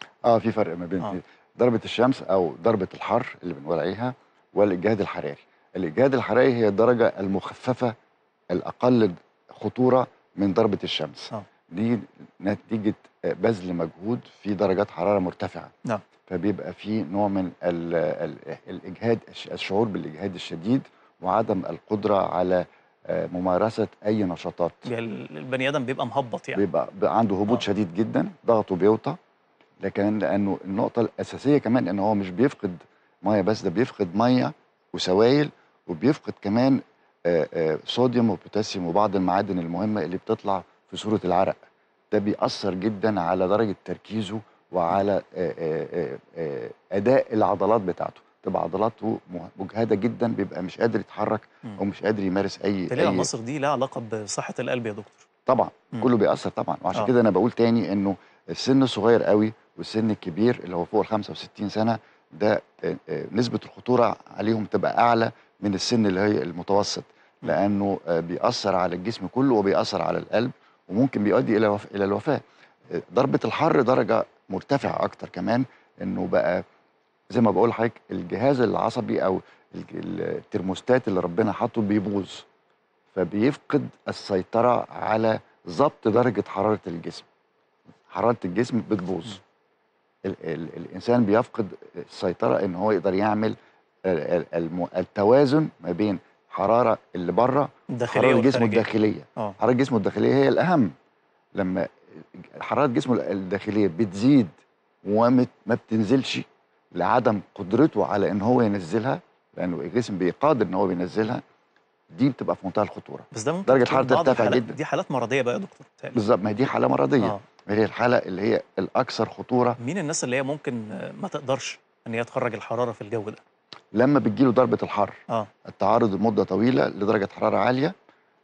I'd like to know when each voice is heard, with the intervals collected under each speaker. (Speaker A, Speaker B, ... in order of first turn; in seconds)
Speaker A: 0.2-7.9, 8.5-15.7, 16.3-24.9, 26.6-29.2, 29.8-41.6, 42.1-53.3, 55.5-76.6, 77.3-82.5, 83.1-87.3, 88.1-89.4, 90.2-100.9, 101.5-111.4, 112.1-114.8, 116.1-119.8, 123.9-127.9
Speaker B: 24.9-26.6, 52.9-55.2, 97.9-99.5, 113.3-116.2, 119.8-123.4